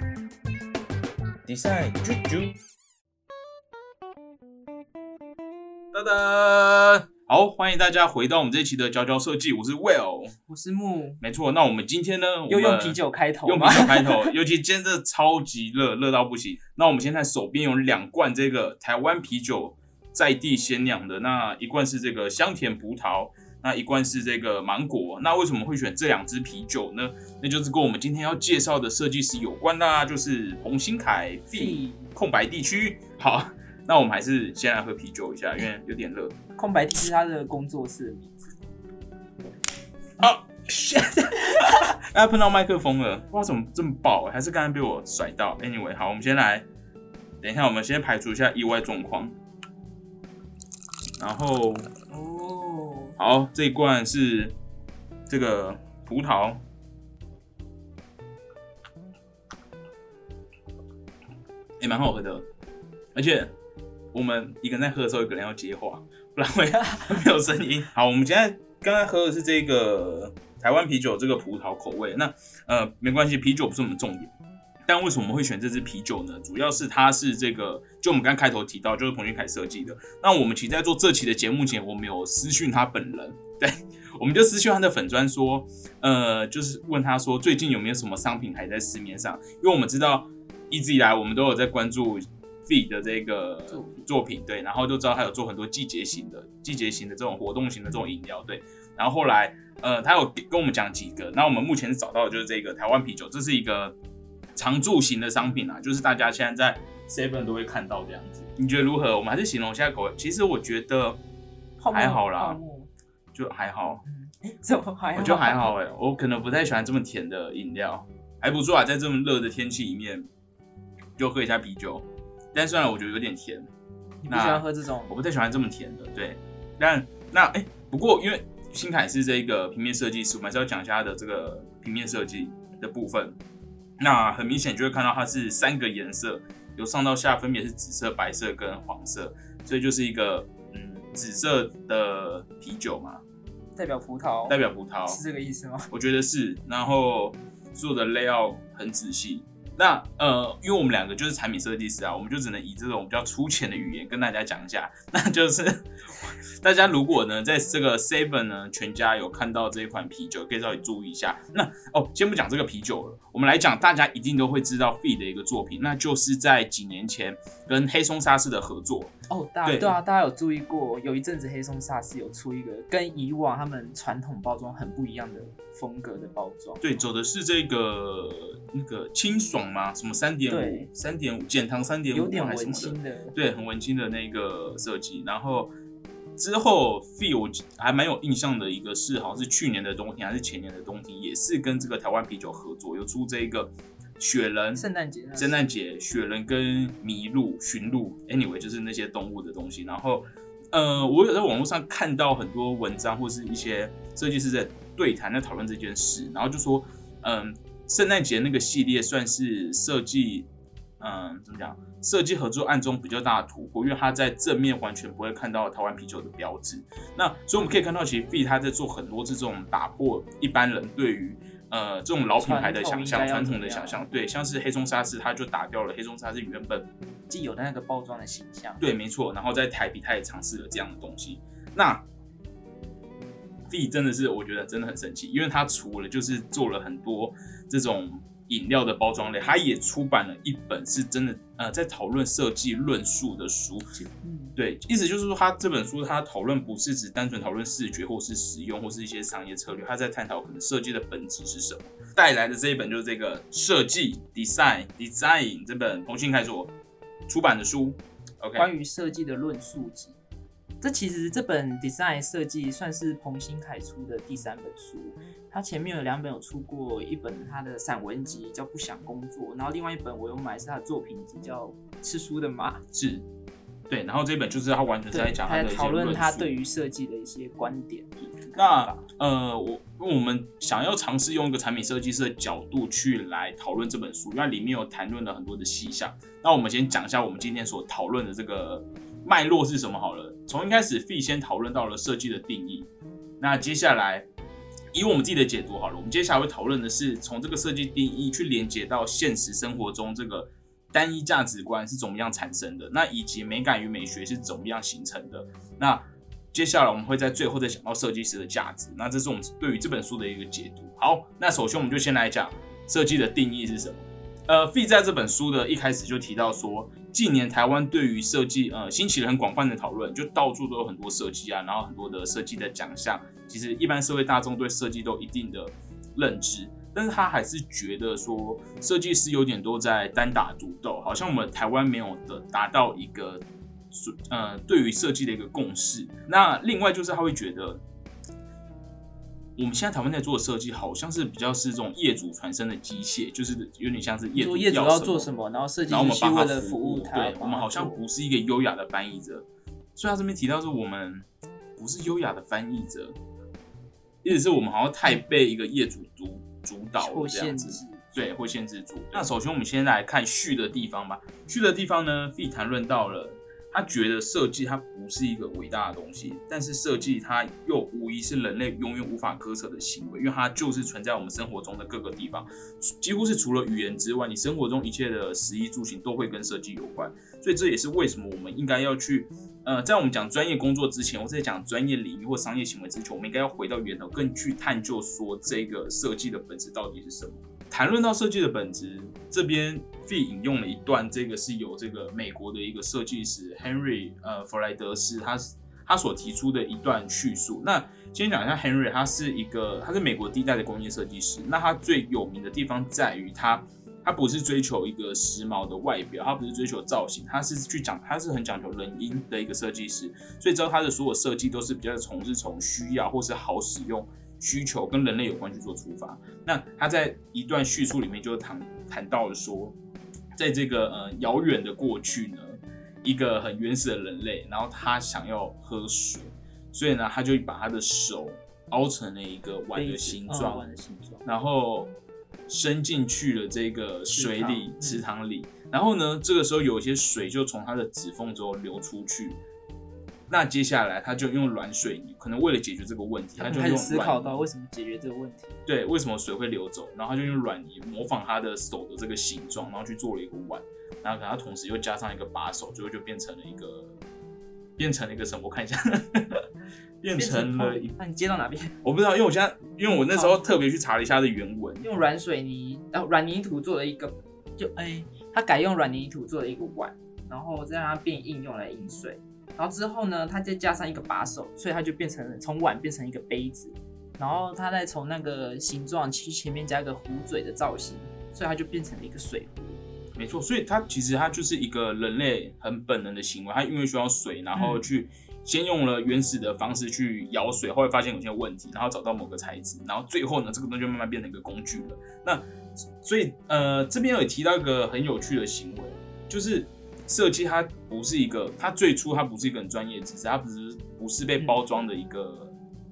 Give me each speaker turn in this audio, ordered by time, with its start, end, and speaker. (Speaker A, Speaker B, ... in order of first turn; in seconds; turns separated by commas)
Speaker A: 1.4-2.6, Speaker A: 5.9-10.3, Speaker B: 10.5-11.2, Speaker A: 11.2-36.4, Speaker B: 12.5-14.3, Speaker B: 31.5-32.1, Speaker B: 36.6-38.5, Speaker A: 40.2-46.7, Speaker A: 47.4-49.3, Speaker A: 51.2-51.9, Speaker B: 52.1-53.1, Speaker A: 53.2-54.5, Speaker A: 55.3-56.6, Speaker A: 61.8-62.5, Speaker A: 63.1-63.5, Speaker A: 64.1-74.3, Speaker A: 74.9-104.0, Speaker B: 93.7-94.1, Speaker A: 104.5-111.2, Speaker B: 111.8-112.9, Speaker A: 111.9-112.6, Speaker A: 113.3-114.0, Speaker B: 114.1-115.7, Speaker A: 115.1-120.3, Speaker A: 121.2-123.7, Speaker B: 124.2-125.1, Speaker A: 124.3-133.4, Speaker A: 134.0-143.2, Speaker B: 143.8-145.9, Speaker A: 144.5-145.2, Speaker A: 145.9-169.1, Speaker B: 169.3-176.8, Speaker A: 169.6-170.0, Speaker A: 176.8-185.7, Speaker B: 180.5-180.9, Speaker B: 182.1-183.3, Speaker A: 186.4-194.8, Speaker B: 194.7-195.6, Speaker A: 195.4-210.5, Speaker A: 211.0-226.9, Speaker B: 222.4-224.0, Speaker B: 227.3-228.8, Speaker A: 228.8-232.0, Speaker A: 233.7-243.9, Speaker B: 243.9-244.5, Speaker A: 244.6-256.7, Speaker A: 257.3-258.7, Speaker B: 258.6-260.2, Speaker B: 260.8-272.8, Speaker A: 272.9-273.2, Speaker A: 273.9-276.5, Speaker B: 275.1-279.0, Speaker A: 278.5-292.9, Speaker A: 293.4-294.3, Speaker A: 294.9-337.8, Speaker A: 339.6-345.3, Speaker B: 344.3-348.0, Speaker A: 345.9-353.1, Speaker A: 354.2-419.8, Speaker B: 357.0-358.0, Speaker A: 420.4-430.7, Speaker B: 429.7-431.2, Speaker A: 431.2-431.9, Speaker A: 432.5-439.4, Speaker B: 434.1-435.0, Speaker A: 440.3-444.4, Speaker B: 443.4-445.6, Speaker A: 445.6-454.0, Speaker A: 454.8-456.4, Speaker A: 457.0-457.9, Speaker B: 457.1-458.8, Speaker A: 458.8-461.8, Speaker B: 460.1-460.4, Speaker B: 461.8-479.8, Speaker A: 480.1-492.4, Speaker B: 484.5-484.8, Speaker A: 493.0-502.5